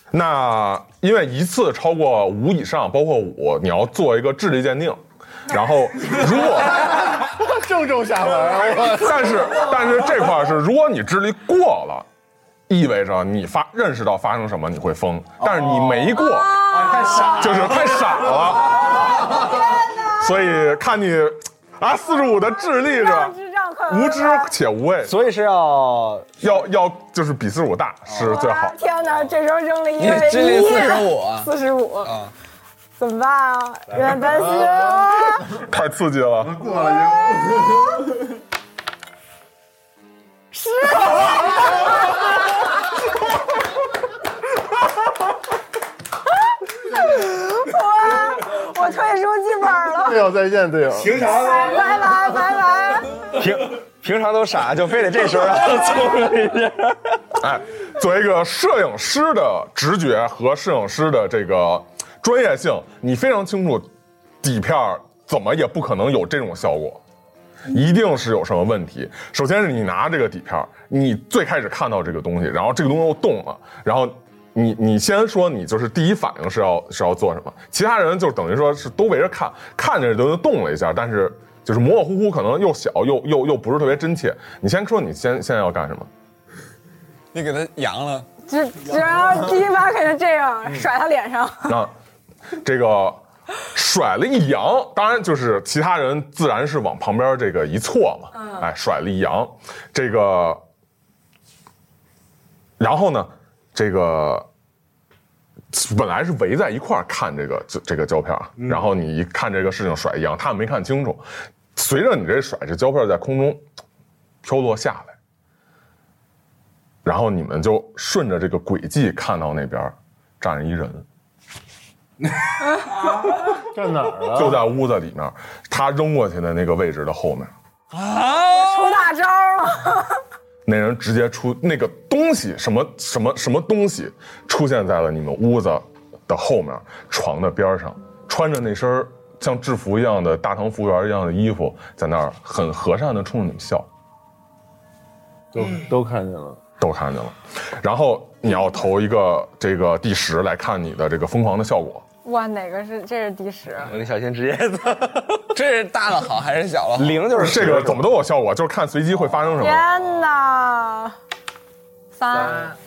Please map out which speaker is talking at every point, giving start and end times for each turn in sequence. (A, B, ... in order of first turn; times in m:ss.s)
0:00.1-0:07.0 A
0:07.2-0:09.5 B
0:08.8-0:12.0 A
0:12.7-0:16.7 A
0:16.4-0:17.2 C
0:17.3-0:19.3 A
0:19.5-0:20.7 C
0:20.1-0:23.3 A
0:22.1-0:24.5 C
0:23.9-0:25.1 A
0:25.0-0:26.4 D
0:26.4-0:28.7 A
0:28.2-0:32.2 C
0:30.0-0:32.3 E
0:33.0-0:35.5 C
0:35.4-0:36.6 A
0:36.4-0:37.8 B
0:36.8-0:37.7 C
0:40.5-0:43.0 C
0:46.9-0:50.3 C
0:50.0-0:51.4 B
0:51.2-0:53.2 C
0:53.3-0:57.2 D
0:57.4-1:03.9 A
1:04.4-1:07.0 A
1:07.7-1:26.1 A
1:27.3-1:28.3 E
1:28.5-1:31.8 C
1:31.7-1:31.9 A
1:32.5-1:33.2 A
1:33.7-1:40.6 A
1:38.3-1:38.7 C
1:42.8-1:44.4 A
1:45.7-1:51.2 A
1:51.7-1:53.6 A
1:54.4-1:55.1 A
1:57.0-2:01.0 A
2:03.6-2:04.7 B
2:04.3-2:07.5 A
2:07.9-2:08.9 E
2:08.4-2:10.2 C
2:10.6-2:23.9 A
2:25.5-2:26.6 B
2:26.8-2:32.0 A
2:32.2-2:34.0 C
2:33.8-2:35.4 D
2:35.5-2:37.2 E
2:37.0-2:38.1 D
2:37.3-2:39.8 A
2:39.6-2:41.1 C
2:42.1-2:42.7 C